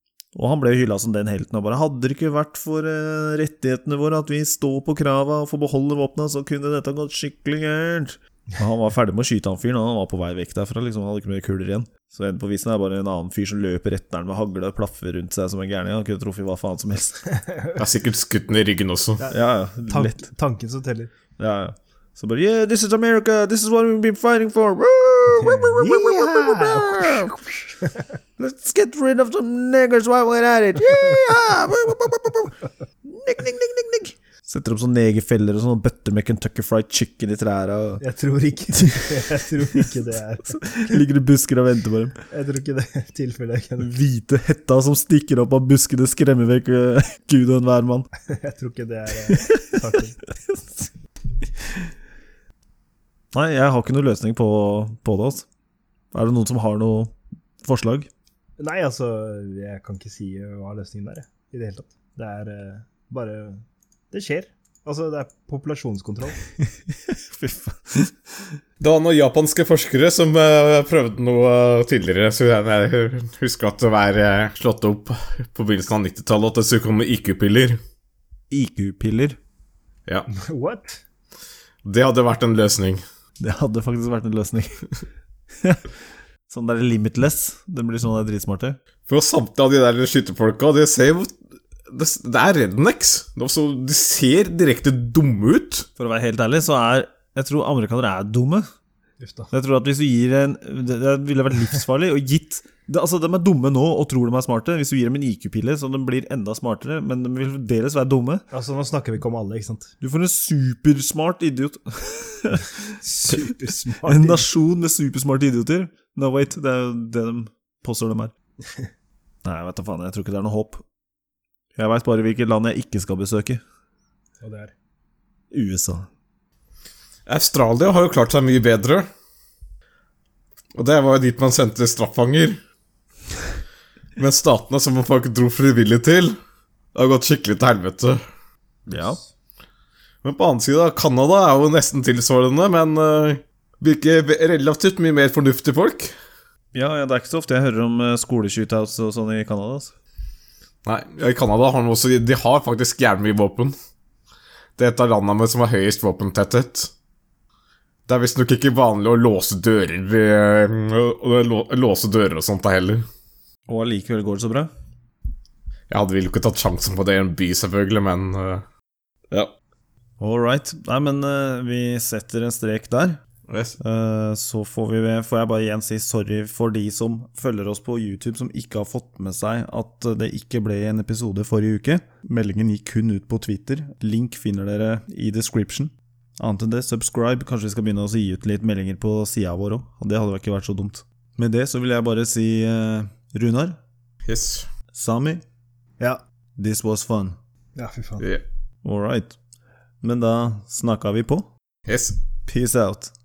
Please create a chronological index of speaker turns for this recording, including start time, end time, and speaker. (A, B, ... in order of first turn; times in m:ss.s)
0:00.3-0:17.2 A
0:17.4-0:17.8 B
0:17.8-0:19.2 C
0:19.2-0:21.1 B
0:19.3-0:20.2 A
0:21.4-0:27.3 A
0:25.3-0:28.1 B
0:28.4-0:32.5 A
0:33.0-0:38.0 A
0:38.0-0:41.0 B
0:38.7-0:39.2 A
0:40.5-0:42.2 A
0:42.3-0:43.9 B
0:43.8-0:48.1 A
0:48.2-0:50.2 B
0:49.3-0:49.8 A
0:50.4-0:50.9 A
0:53.3-0:55.4 A
0:56.1-0:58.1 A
0:58.6-1:06.4 B
1:07.1-1:08.2 A
1:08.8-1:17.8 C
1:18.5-1:19.4 A
1:20.3-1:21.0 B
1:21.8-1:23.0 C
1:23.4-1:24.9 A
1:26.5-1:28.8 A
1:29.1-1:31.3 C
1:31.9-1:35.9 C
1:36.0-1:38.7 A
1:39.2-1:39.5 B
1:39.5-1:48.4 A
1:48.5-1:49.9 B
1:50.0-1:52.8 A
1:53.0-1:54.5 B
1:54.0-1:58.3 A
1:59.4-2:00.8 A
2:01.8-2:03.6 A
2:04.4-2:04.7 B
2:05.5-2:06.1 A
2:07.3-2:09.1 C
2:10.7-2:12.6 C
2:14.2-2:16.4 C
2:16.9-2:18.2 C
2:18.9-2:19.2 A
2:20.2-2:26.1 C
2:26.7-2:29.9 A
2:30.8-2:33.8 C
2:34.8-2:36.9 C
2:38.1-2:43.0 C
2:43.7-2:44.7 A
2:45.9-2:48.6 C
2:50.2-2:53.2 A
2:53.5-2:53.8 C
2:53.8-3:13.8 A
3:14.2-3:14.7 C
3:14.9-3:15.4 A
3:16.6-3:17.4 A
3:17.8-3:18.2 B
3:18.8-3:19.4 A
3:20.0-3:21.5 A
3:21.9-3:22.1 C
3:22.5-3:23.1 A